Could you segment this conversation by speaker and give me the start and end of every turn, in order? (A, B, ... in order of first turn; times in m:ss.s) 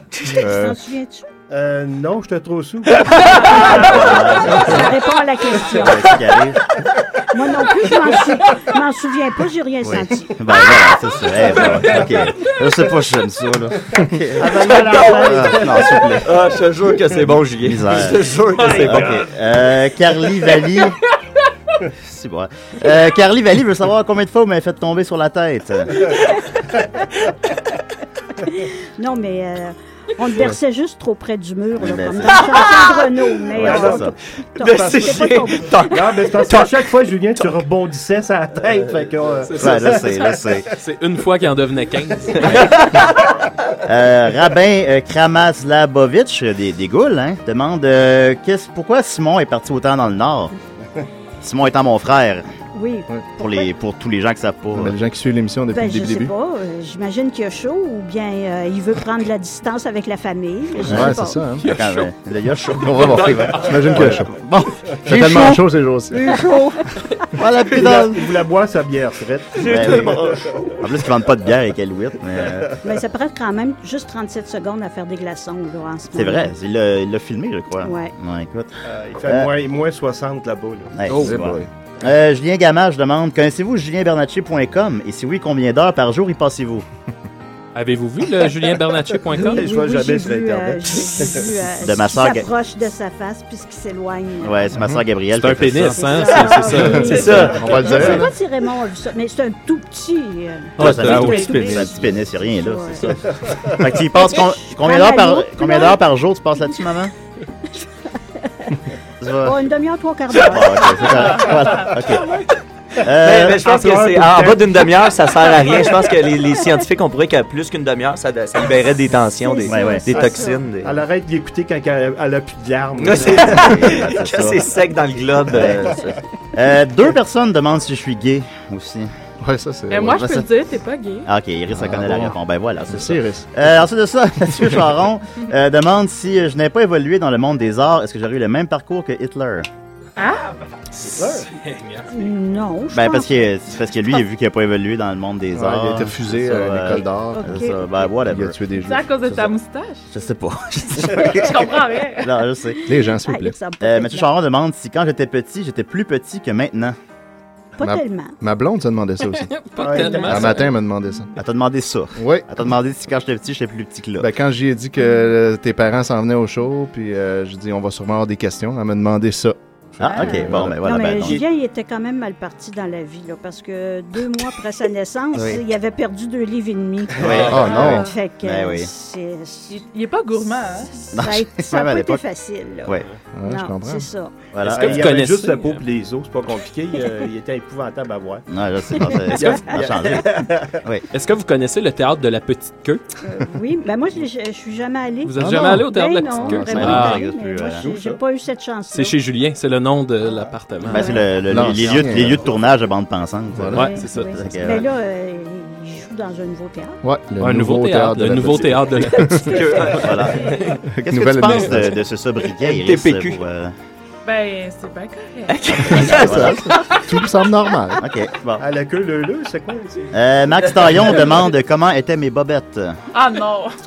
0:00.2-0:01.2 A
0:00.4-0:00.8 B
0:01.5-0:03.8 C
0:03.3-0:04.9 D
0:03.3-0:06.2 A
0:05.7-0:06.6 D
0:07.3-0:10.4 A
0:09.8-0:16.3 D
0:14.4-0:16.2 C
0:14.5-0:19.3 E
0:17.6-0:20.9 D
0:22.0-0:26.2 D
0:28.4-0:35.8 A
0:31.8-0:32.7 D
0:32.4-0:33.1 E
0:33.5-0:34.1 D
0:33.6-0:34.1 C
0:34.6-0:37.4 E
0:34.6-0:40.3 C
0:39.4-0:42.7 F
0:39.6-0:40.7 D
0:42.4-0:43.3 E
0:42.4-0:42.7 D
0:43.8-0:50.5 D
0:51.4-0:52.4 D
0:52.7-0:53.6 A
0:53.4-0:54.9 D
0:54.7-0:56.3 B
0:55.7-1:01.4 A
1:00.8-1:01.7 B
1:00.8-1:01.1 D
1:01.6-1:02.0 F
1:01.6-1:05.5 D
1:02.8-1:03.4 E
1:02.8-1:04.3 B
1:03.1-1:03.8 F
1:05.0-1:06.2 B
1:07.3-1:08.3 D
1:07.7-1:10.7 C
1:09.6-1:10.6 E
1:09.6-1:12.8 D
1:12.8-1:16.5 A
1:16.1-1:18.7 D
1:17.8-1:18.1 A
1:18.9-1:21.0 C
1:19.2-1:19.5 D
1:20.9-1:26.8 D
1:21.0-1:21.4 F
1:21.1-1:21.7 B
1:27.7-1:29.6 F
1:29.3-1:34.6 A
1:29.4-1:31.6 C
1:31.8-1:32.5 D
1:34.4-1:36.3 D
1:35.3-1:37.5 F
1:35.8-1:43.2 A
1:36.8-1:38.3 B
1:37.0-1:37.6 E
1:40.8-1:41.9 E
1:40.8-1:47.1 D
1:41.0-1:41.4 F
1:41.3-1:41.6 G
1:44.0-1:46.0 A
1:48.4-1:48.9 A
1:49.2-1:49.6 D
1:49.4-1:52.4 A
1:50.4-1:52.3 D
1:53.0-1:53.7 D
1:53.2-2:01.0 E
1:53.2-1:54.9 C
1:59.4-2:00.6 A
1:59.6-2:00.3 D
2:00.1-2:04.0 C
2:03.0-2:06.2 E
2:03.1-2:04.8 D
2:05.5-2:09.1 D
2:05.7-2:06.1 C
2:09.4-2:10.2 B
2:09.9-2:11.3 G
2:10.0-2:10.5 D
2:11.2-2:19.7 D
2:11.7-2:12.4 B
2:12.9-2:13.5 B
2:20.2-2:20.5 G
2:21.0-2:21.5 C
2:21.2-2:22.1 F
2:22.1-2:23.3 A
2:22.9-2:28.6 D
2:25.5-2:27.7 B
2:27.3-2:27.8 A
2:28.2-2:29.4 B
2:28.8-2:30.1 G
2:29.3-2:29.5 D
2:30.1-2:32.8 D
2:31.4-2:32.4 G
2:32.9-2:33.6 B
2:32.9-2:34.3 A
2:33.8-2:37.0 D
2:37.8-2:38.4 A
2:37.8-2:39.5 B
2:39.3-2:40.7 F
2:39.8-2:40.7 C
2:40.2-2:41.3 B
2:41.4-2:44.3 D
2:42.2-2:42.5 B
2:44.2-2:50.8 B
2:50.0-2:51.4 D
2:50.0-2:50.4 G
2:50.2-2:59.8 A
2:55.4-2:55.6 D
2:57.2-2:57.7 F
2:57.2-2:58.9 D
2:57.5-2:58.1 B
2:57.6-2:58.1 G
2:59.7-3:00.9 G
3:01.0-3:04.3 A
3:01.1-3:02.2 D
3:03.3-3:04.1 B
3:04.5-3:05.1 D
3:04.6-3:08.4 C
3:04.6-3:05.8 F
3:08.5-3:11.0 D
3:09.1-3:09.5 A
3:09.3-3:09.6 F
3:09.7-3:10.8 C
3:11.1-3:13.0 F
3:13.2-3:19.2 A
3:15.2-3:17.2 F
3:15.4-3:15.9 B
3:16.4-3:17.9 D
3:17.8-3:18.2 C
3:18.9-3:21.2 F
3:20.9-3:24.9 D
3:20.9-3:21.2 A
3:21.5-3:22.4 B
3:23.5-3:23.9 B
3:23.7-3:27.0 A
3:23.8-3:24.4 F
3:27.0-3:29.6 B
3:27.4-3:30.8 F
3:29.4-3:30.3 E
3:29.9-3:33.7 D
3:30.9-3:32.0 B
3:32.6-3:33.4 E
3:34.2-3:35.8 G
3:35.5-3:36.8 E
3:35.8-3:36.8 D
3:35.9-3:38.0 B
3:38.0-3:38.6 D
3:38.6-3:40.1 C
3:40.1-3:43.0 D
3:43.1-3:43.7 G